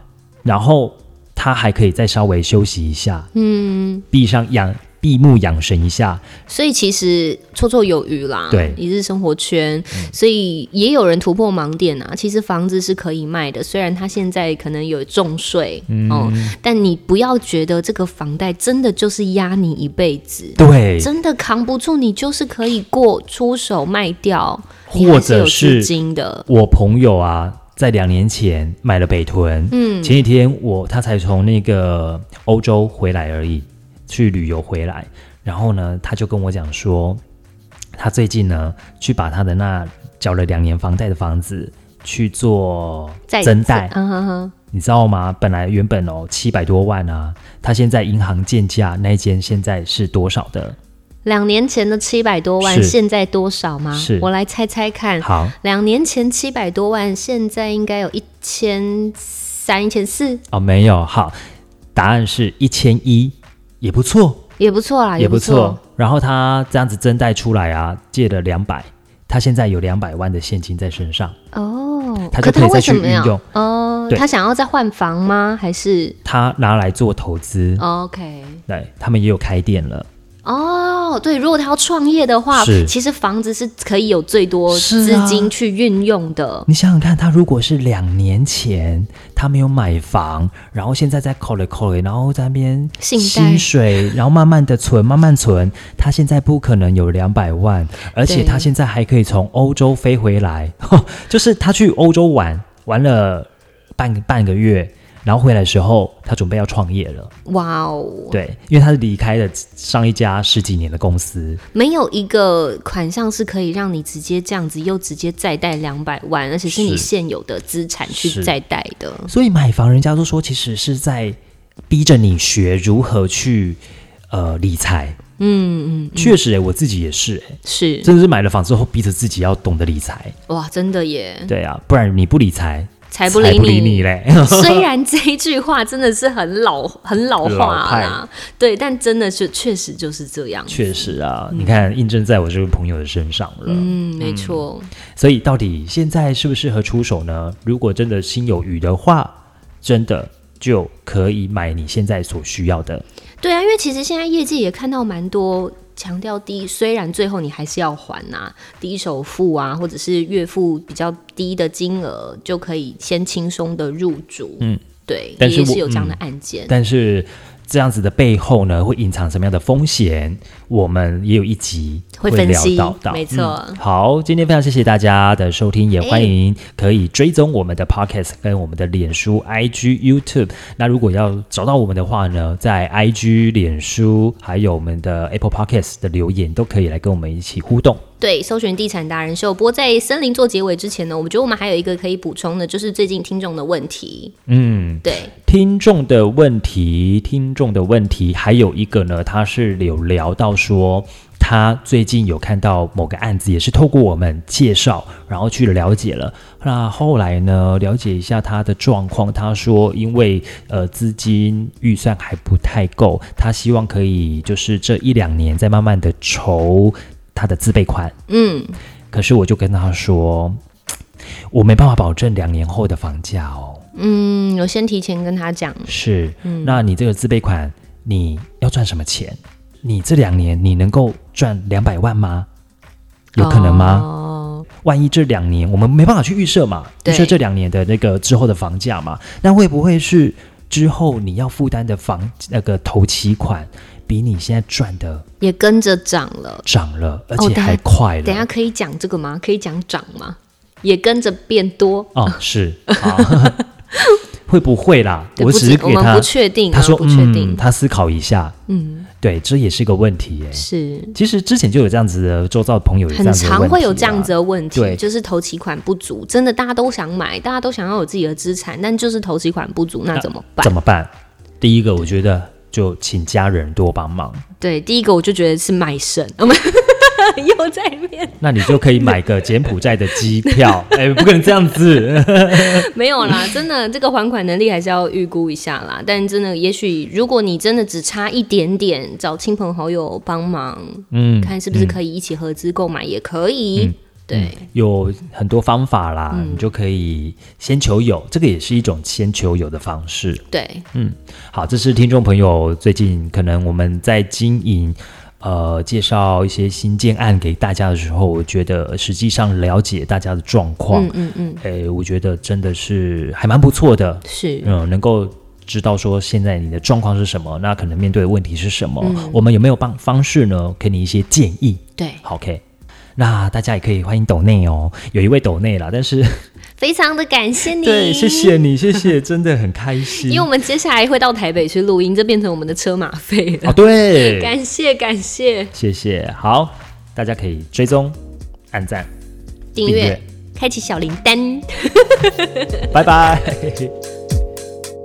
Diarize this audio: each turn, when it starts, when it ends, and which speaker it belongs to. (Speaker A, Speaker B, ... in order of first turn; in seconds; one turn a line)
Speaker A: 0.4-3.3
Speaker B: 3.3-4.1
Speaker A: 4.1-6.3
Speaker B: 6.5-26.5
Speaker A: 8.5-8.8
Speaker A: 15.9-16.6
Speaker A: 20.6-21.1
Speaker A: 24.9-25.9
Speaker A: 26.5-37.2
Speaker B: 29.7-30.2
Speaker A: 38.0-43.9
Speaker B: 43.3-44.5
Speaker A: 44.7-50.8
Speaker B: 51.2-60.4
Speaker A: 52.6-53.0
Speaker A: 53.9-54.3
Speaker A: 55.2-55.5
Speaker A: 60.5-61.4
Speaker A: 62.0-64.4
Speaker B: 64.6-65.8
Speaker A: 65.2-71.4
Speaker B: 71.5-76.2
Speaker A: 72.3-73.4
Speaker A: 76.2-77.8
Speaker B: 77.8-78.6
Speaker A: 78.7-80.1
Speaker B: 80.5-86.7
Speaker A: 82.5-82.9
Speaker A: 84.7-85.5
Speaker A: 86.7-107.3
Speaker B: 93.0-93.7
Speaker B: 98.2-98.7
Speaker B: 107.5-108.4
Speaker A: 108.3-111.6
Speaker B: 111.7-119.3
Speaker A: 116.7-117.1
Speaker A: 118.1-118.5
Speaker A: 119.3-121.4
Speaker A: 121.9-123.8
Speaker A: 124.3-125.2
Speaker B: 125.4-126.4
Speaker A: 126.2-130.4
Speaker B: 127.7-128.1
Speaker B: 130.5-131.5
Speaker A: 131.5-134.9
Speaker B: 133.1-141.8
Speaker A: 137.4-138.2
Speaker A: 140.7-153.0
Speaker B: 143.7-144.9
Speaker B: 153.4-166.7
Speaker A: 165.4-188.0
Speaker B: 172.2-173.8
Speaker B: 176.0-176.3
Speaker B: 188.2-194.3
Speaker A: 194.5-218.2
Speaker B: 195.0-195.3
Speaker B: 218.3-218.8
Speaker A: 219.1-220.6
Speaker A: 221.5-223.8
Speaker B: 223.9-225.9
Speaker A: 225.9-232.5
Speaker B: 226.4-226.8
Speaker A: 233.3-234.1
Speaker B: 233.4-234.7
Speaker A: 234.8-245.2
Speaker B: 237.0-237.4
Speaker B: 245.4-246.7
Speaker A: 246.7-248.5
Speaker B: 247.4-252.4
Speaker A: 252.2-253.6
Speaker B: 252.9-254.2
Speaker A: 254.5-258.6
Speaker B: 255.4-257.6
Speaker B: 258.7-259.1
Speaker A: 259.2-265.0
Speaker B: 260.5-261.2
Speaker B: 263.1-270.7
Speaker A: 270.1-274.4
Speaker B: 274.6-279.2
Speaker A: 278.4-283.4
Speaker B: 280.2-281.8
Speaker B: 282.5-294.6
Speaker A: 291.1-292.0
Speaker A: 293.8-322.6
Speaker B: 296.3-296.7
Speaker B: 300.5-300.9
Speaker B: 310.9-311.6
Speaker B: 314.2-314.7
Speaker B: 319.0-319.5
Speaker B: 322.0-322.2
Speaker A: 323.2-326.3
Speaker B: 326.8-328.6
Speaker A: 327.7-330.5
Speaker B: 330.0-335.7
Speaker A: 333.6-334.5
Speaker A: 335.7-338.2
Speaker A: 338.7-339.1
Speaker B: 339.8-342.9
Speaker A: 339.8-340.2
Speaker A: 342.9-343.9